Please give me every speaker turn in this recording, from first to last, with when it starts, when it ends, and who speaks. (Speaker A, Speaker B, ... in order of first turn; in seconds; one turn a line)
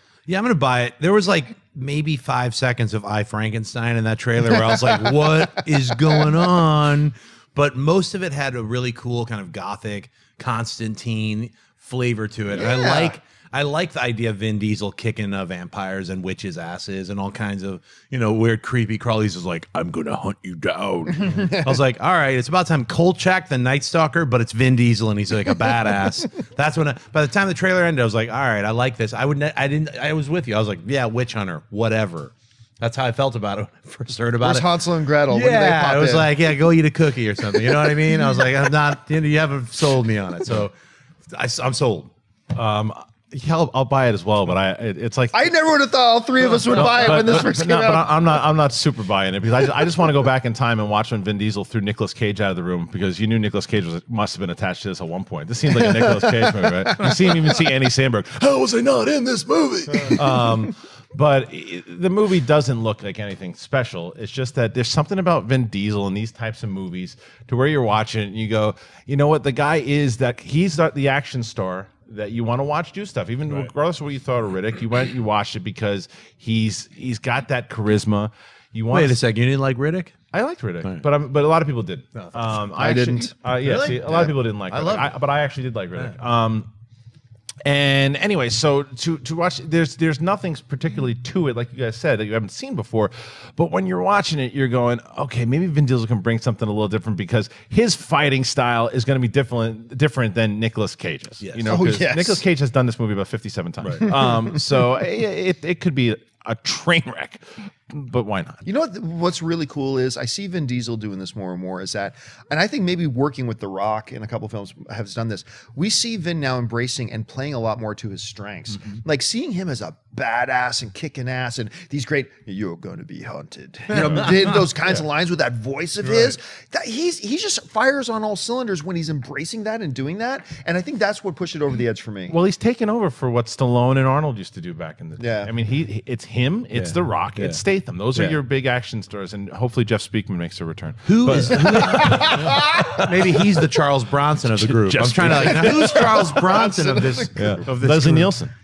Speaker A: 0.3-34.7
Speaker B: 12.6-13.2
Speaker B: 21.2-21.7
Speaker B: 34.4-36.3
Speaker A: 35.3-40.7
Speaker A: 41.3-42.1
Speaker C: 42.5-45.4
Speaker B: 45.3-48.1
Speaker C: 46.6-58.6
Speaker B: 56.0-56.5
Speaker B: 57.2-57.5
Speaker B: 58.6-60.5
Speaker C: 59.9-79.2
Speaker A: 78.9-80.1
Speaker C: 80.3-86.7
Speaker A: 82.2-82.4
Speaker B: 82.7-83.3
Speaker A: 83.6-85.1
Speaker C: 87.6-108.6
Speaker A: 101.4-101.8
Speaker B: 101.7-102.4
Speaker A: 103.8-104.1
Speaker B: 108.6-132.3
Speaker A: 124.0-124.5
Speaker C: 124.0-124.3
Speaker A: 126.0-126.3
Speaker C: 132.3-143.3
Speaker B: 135.2-135.5
Speaker A: 136.7-137.6
Speaker A: 141.0-148.4
Speaker B: 142.0-142.6
Speaker C: 144.6-145.8
Speaker B: 145.2-147.7
Speaker C: 147.3-148.5